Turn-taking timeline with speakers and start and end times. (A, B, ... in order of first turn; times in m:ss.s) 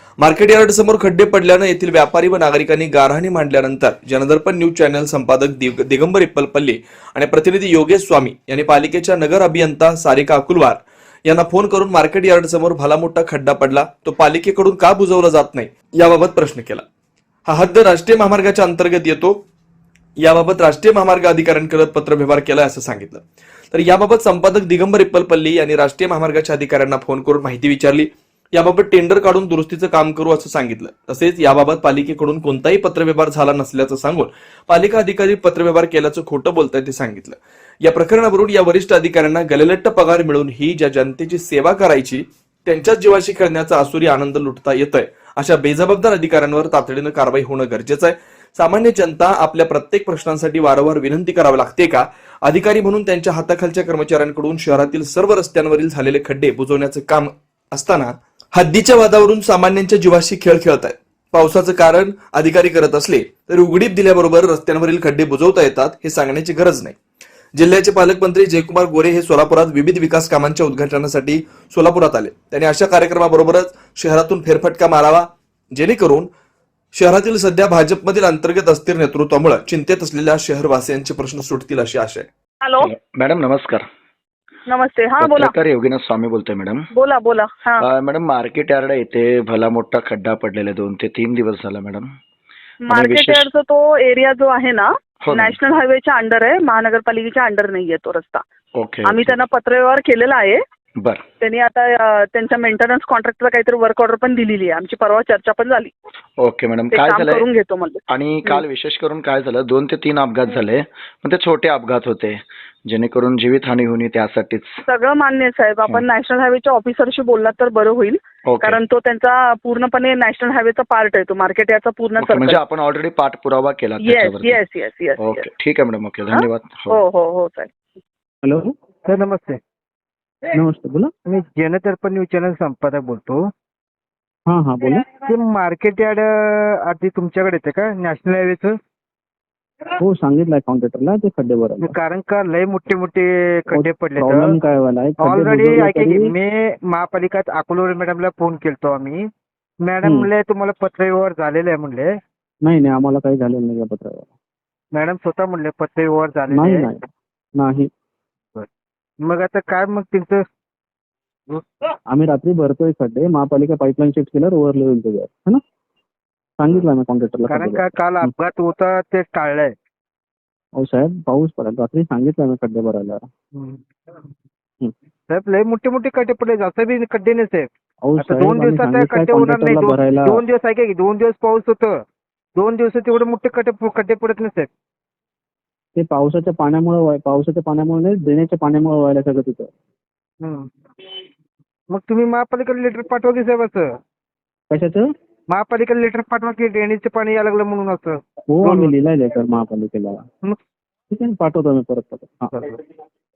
0:00.2-0:16.8 A
0:17.5-0:19.4 A
0:20.2-1:07.0 A
1:07.6-1:16.3 A
1:16.9-1:22.3 A
1:22.6-1:22.9 B
1:22.8-1:23.8 C
1:24.7-1:25.5 B
1:25.2-1:26.9 C
1:27.0-1:27.8 B
1:27.8-1:32.1 C
1:32.9-1:38.4 B
1:32.9-1:33.5 C
1:35.2-1:35.6 C
1:38.8-1:39.4 C
1:39.0-1:40.6 B
1:41.4-1:45.9 B
1:46.4-1:47.5 C
1:46.9-1:48.6 B
1:48.1-1:54.8 C
1:54.9-2:02.6 B
1:58.5-1:58.8 C
2:02.2-2:04.6 C
2:04.0-2:05.5 B
2:05.2-2:07.0 C
2:06.3-2:07.7 B
2:08.4-2:08.7 D
2:09.1-2:09.6 E
2:10.5-2:11.1 D
2:11.3-2:13.4 E
2:14.5-2:15.1 D
2:15.0-2:18.8 E
2:20.0-2:21.9 D
2:21.8-2:24.6 E
2:23.7-2:26.3 D
2:25.2-2:29.3 E
2:29.8-2:32.1 E
2:30.0-2:30.3 D
2:32.6-2:34.3 D
2:34.9-2:36.9 E
2:36.5-2:37.1 D
2:37.6-2:37.9 D
2:39.2-2:40.4 E
2:42.1-2:45.6 D
2:46.6-2:48.3 D
2:47.5-2:49.7 E
2:50.8-2:53.2 D
2:53.6-2:53.8 E
2:55.3-3:02.0 E
2:58.0-3:00.4 D
3:02.6-3:04.7 E
3:06.0-3:09.7 D
3:10.4-3:10.7 E
3:11.9-3:13.9 E
3:14.7-3:15.1 D
3:15.5-3:18.9 E
3:18.5-3:20.2 D
3:21.1-3:22.6 D